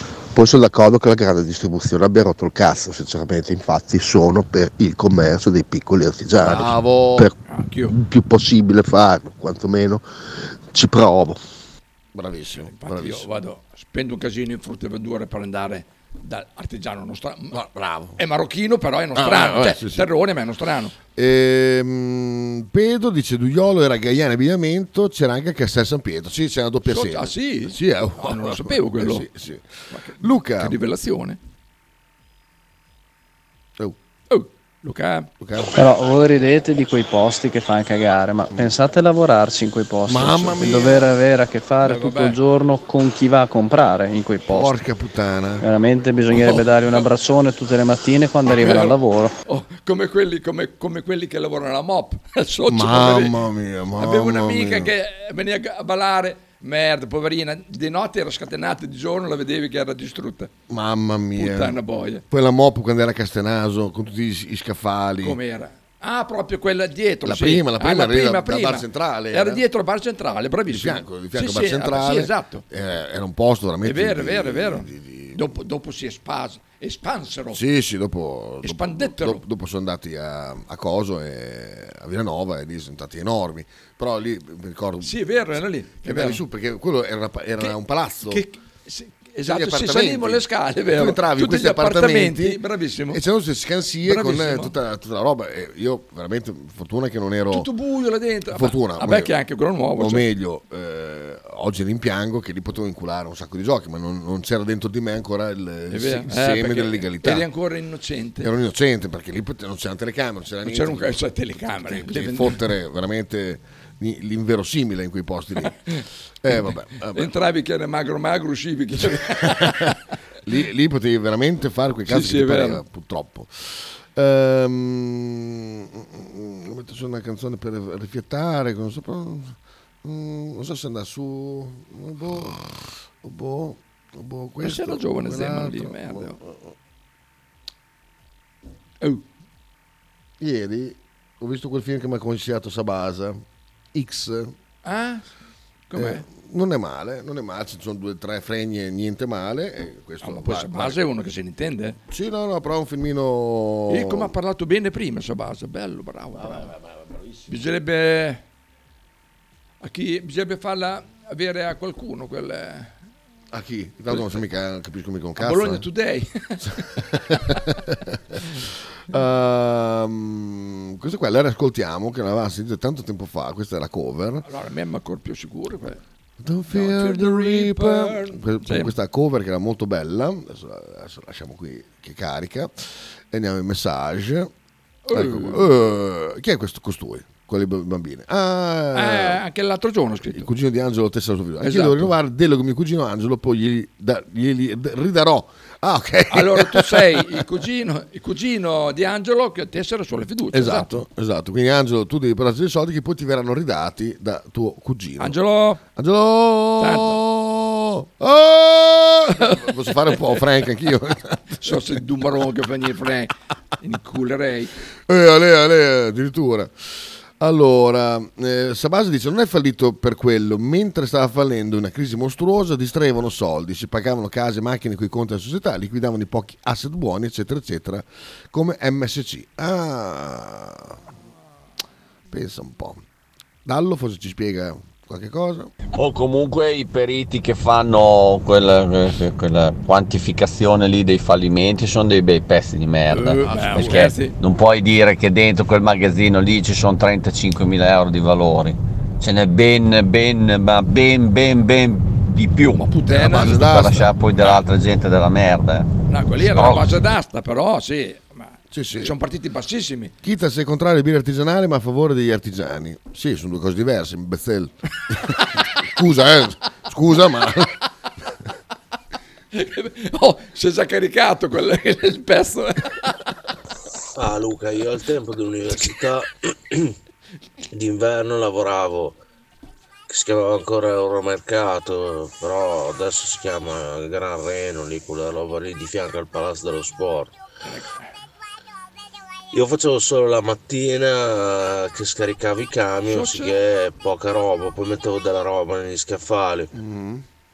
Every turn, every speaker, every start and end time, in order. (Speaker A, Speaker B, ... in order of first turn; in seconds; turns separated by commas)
Speaker A: 0.3-7.3, Speaker B: 6.4-7.3, Speaker C: 7.5-7.9, Speaker A: 7.9-10.0, Speaker A: 10.7-11.4, Speaker B: 12.1-13.3, Speaker C: 12.6-17.6, Speaker B: 17.5-18.2, Speaker C: 18.2-20.9, Speaker B: 19.1-20.1, Speaker B: 21.1-30.8, Speaker C: 26.9-29.2, Speaker C: 29.9-31.4, Speaker C: 34.3-35.3, Speaker B: 35.4-35.8, Speaker D: 35.8-44.7, Speaker B: 38.5-38.8, Speaker B: 40.0-41.1, Speaker C: 41.8-42.4, Speaker B: 44.5-45.6, Speaker D: 45.6-49.3, Speaker C: 46.3-47.1, Speaker C: 48.6-53.4, Speaker B: 52.7-54.9, Speaker C: 54.0-60.5, Speaker B: 60.7-61.8, Speaker C: 61.4-62.2, Speaker B: 62.3-65.4, Speaker C: 65.2-72.6, Speaker B: 67.2-69.6, Speaker B: 70.7-75.5, Speaker C: 73.8-77.6, Speaker B: 77.5-85.2, Speaker C: 78.6-79.4, Speaker C: 85.0-86.4, Speaker B: 86.0-88.4, Speaker C: 87.6-93.2, Speaker B: 89.4-97.7, Speaker C: 94.0-94.7, Speaker C: 97.5-100.3, Speaker B: 98.5-99.3, Speaker B: 100.0-107.5, Speaker C: 105.9-108.5, Speaker B: 108.4-111.2, Speaker C: 110.6-112.6, Speaker B: 111.8-115.8, Speaker C: 115.6-120.0, Speaker B: 116.4-117.3, Speaker B: 119.1-136.7, Speaker C: 122.1-122.8, Speaker C: 134.6-136.4, Speaker B: 140.4-143.4, Speaker B: 143.9-144.5, Speaker C: 144.8-145.2, Speaker C: 145.9-146.2, Speaker B: 145.9-151.0, Speaker C: 150.2-152.0, Speaker B: 152.1-154.3, Speaker C: 153.9-156.7, Speaker B: 156.4-157.4, Speaker C: 157.5-158.4, Speaker C: 159.8-162.9, Speaker B: 163.5-165.8, Speaker C: 164.1-164.4, Speaker C: 165.4-166.9, Speaker B: 166.9-174.4, Speaker C: 174.4-176.0, Speaker B: 176.4-184.5, Speaker C: 176.7-178.9, Speaker C: 185.1-185.7, Speaker B: 185.1-189.4, Speaker C: 188.9-190.5, Speaker B: 190.3-197.4, Speaker C: 191.6-192.1, Speaker C: 196.3-200.9, Speaker B: 200.5-211.9, Speaker C: 205.2-205.8, Speaker C: 206.8-207.2, Speaker C: 209.4-209.9, Speaker C: 211.6-214.7, Speaker B: 215.1-231.0, Speaker B: 232.3-233.0, Speaker B: 233.6-235.7, Speaker E: 235.9-255.9, Speaker C: 243.1-244.3, Speaker B: 243.5-244.0, Speaker C: 252.8-253.8, Speaker B: 253.1-254.1, Speaker C: 256.1-260.1, Speaker E: 256.5-256.9, Speaker B: 258.7-259.1, Speaker B: 260.2-267.8, Speaker C: 269.5-273.1, Speaker F: 274.1-276.9, Speaker F: 277.7-279.2, Speaker F: 280.1-287.4, Speaker C: 287.6-288.0, Speaker F: 289.5-296.7, Speaker C: 293.1-293.6, Speaker B: 296.7-297.2